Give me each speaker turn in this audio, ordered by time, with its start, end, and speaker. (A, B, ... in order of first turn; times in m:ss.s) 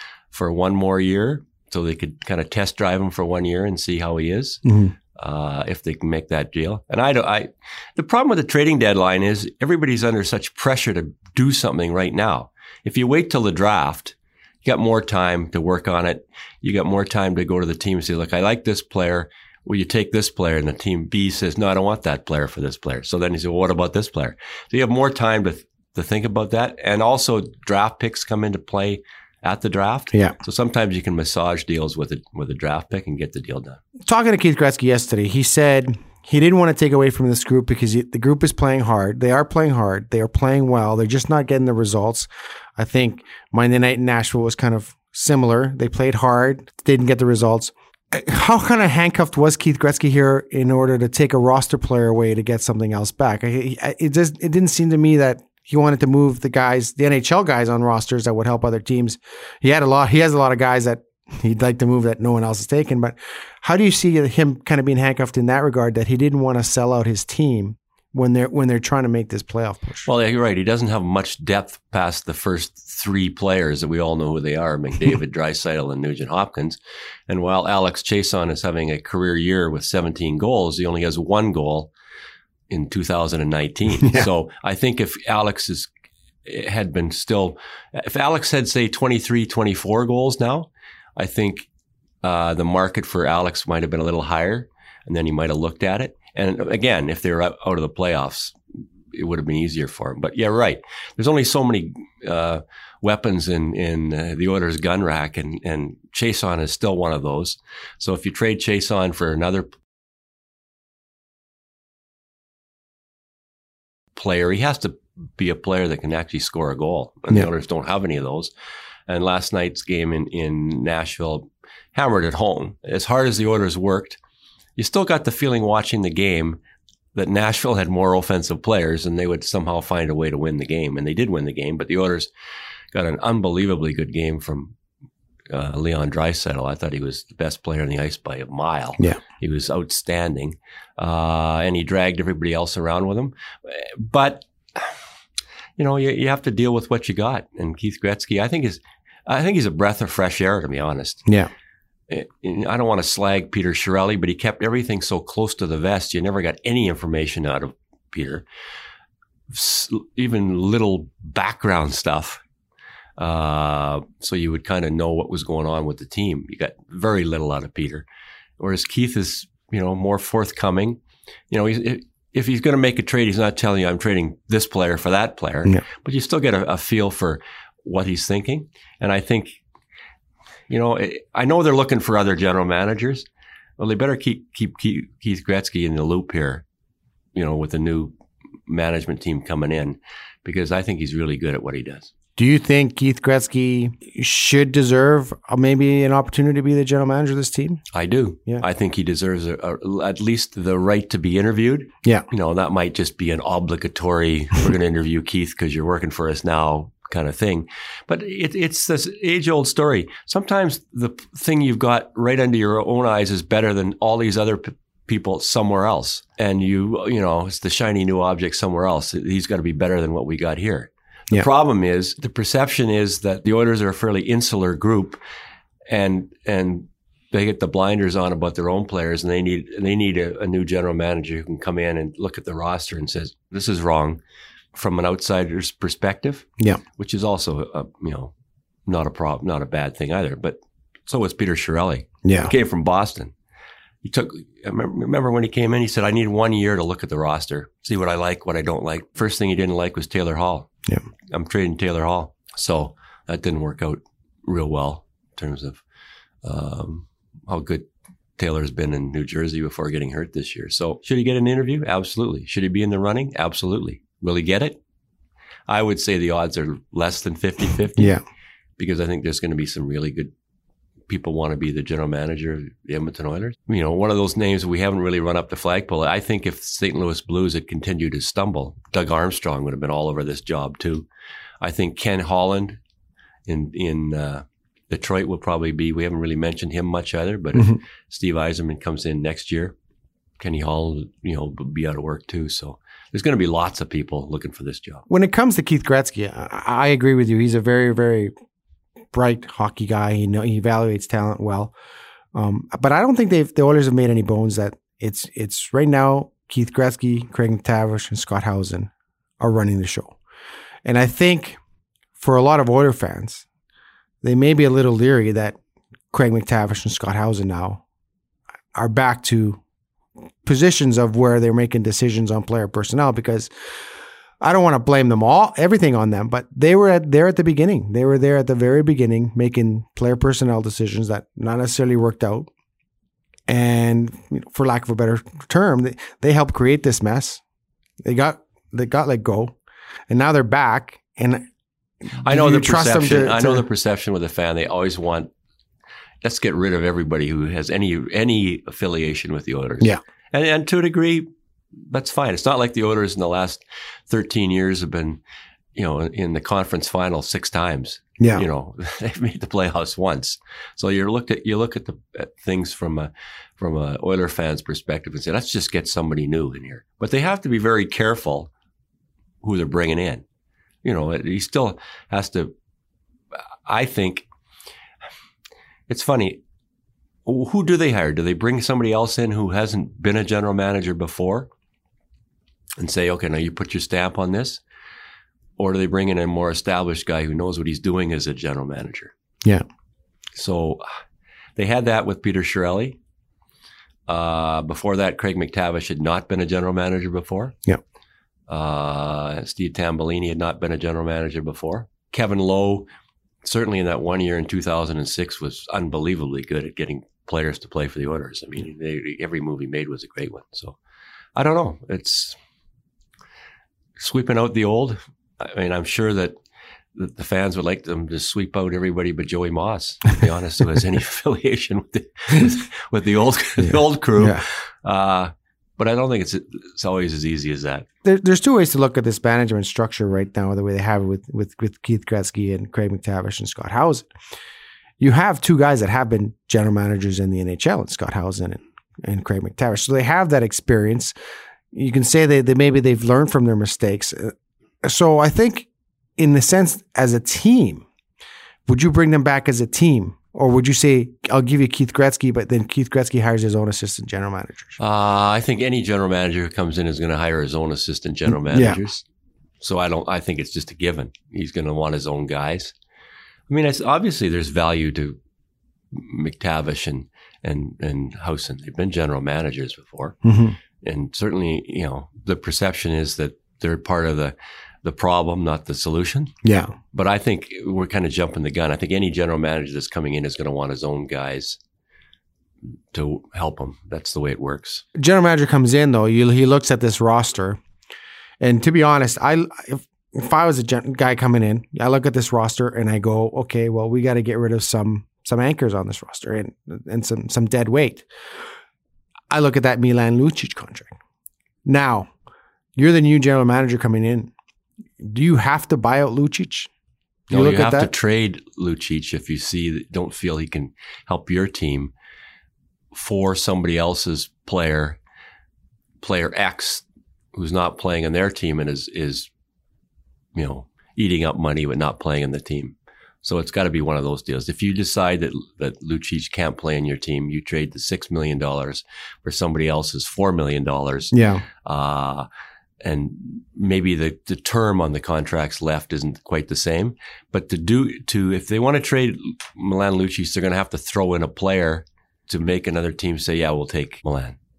0:00.3-0:04.6 A
0:04.6-0:04.9 B
0:05.2-0:33.8 A
0:34.0-1:10.1 B
1:10.0-1:21.9 A
1:22.7-1:25.9 A
1:24.0-1:24.3 B
1:26.4-1:31.7 A
1:32.2-1:38.6 A
1:39.1-1:49.7 A
1:54.1-1:58.5 A
1:59.1-2:04.2 A
2:04.8-2:06.6 A
2:07.1-2:12.3 A
2:12.9-2:14.7 A
2:15.5-2:25.0 A
2:25.8-2:31.2 A
2:31.2-2:31.5 B
2:32.1-2:38.4 A
2:39.5-2:42.4 A
2:43.2-2:48.0 A
2:48.6-2:59.6 A
3:00.7-3:03.3 A
3:03.8-3:06.6 A
3:07.3-3:08.1 A
3:08.7-3:12.1 A
3:12.4-3:17.8 B
3:17.9-3:45.2 A
3:45.9-3:54.2 A
3:54.7-3:58.3 A
3:58.9-4:03.3 A
4:02.2-4:02.5 B
4:04.0-4:10.7 A
4:11.3-4:15.8 A
4:16.4-4:24.8 A
4:25.7-4:28.2 A
4:28.0-4:28.2 B
4:28.8-4:30.3 A
4:31.1-4:41.0 A
4:41.6-4:42.8 A
4:43.4-4:49.7 A
4:50.4-4:55.0 A
4:55.1-4:58.3 B
4:59.1-5:01.7 B
5:02.3-5:10.2 B
5:10.8-5:11.6 B
5:12.2-5:13.4 B
5:14.2-5:15.6 B
5:16.1-5:17.8 B
5:18.7-5:19.6 B
5:20.4-5:23.5 B
5:24.4-5:32.5 B
5:33.5-5:37.4 B
5:38.0-5:39.6 B
5:40.1-5:41.4 B
5:42.0-5:43.6 B
5:42.2-5:45.3 A
5:46.2-5:51.3 A
5:51.9-5:55.2 A
5:55.7-6:08.5 A
5:58.2-5:58.4 B
6:09.4-6:10.2 A
6:10.8-6:12.5 A
6:13.6-6:14.3 A
6:15.9-6:16.4 A
6:17.2-6:21.5 A
6:22.8-6:24.6 A
6:25.6-6:29.1 A
6:30.4-6:31.0 A
6:31.6-6:33.0 A
6:34.1-6:37.6 A
6:38.5-6:42.8 A
6:43.4-6:50.8 A
6:51.4-6:52.4 A
6:54.0-6:56.4 A
6:56.9-7:07.8 A
7:03.6-7:04.4 B
7:08.0-7:14.1 B
7:15.0-7:21.1 B
7:21.7-7:27.8 B
7:28.6-7:34.8 B
7:34.8-7:39.0 A
7:38.3-7:38.8 B
7:39.6-7:42.7 A
7:43.5-7:45.2 A
7:45.9-7:50.2 A
7:50.2-7:50.6 B
7:50.8-7:56.3 A
7:56.4-7:56.7 B
7:56.9-8:01.6 A
8:02.9-8:04.8 A
8:04.9-8:07.6 B
8:08.4-8:18.1 B
8:19.3-8:20.9 B
8:21.6-8:22.1 B
8:22.8-8:24.3 B
8:25.0-8:26.7 B
8:27.3-8:31.9 A
8:27.3-8:27.9 B
8:32.9-8:35.0 A
8:36.0-8:36.8 A
8:37.3-8:39.3 A
8:40.3-8:52.3 A
8:51.1-8:51.4 B
8:52.8-9:04.4 A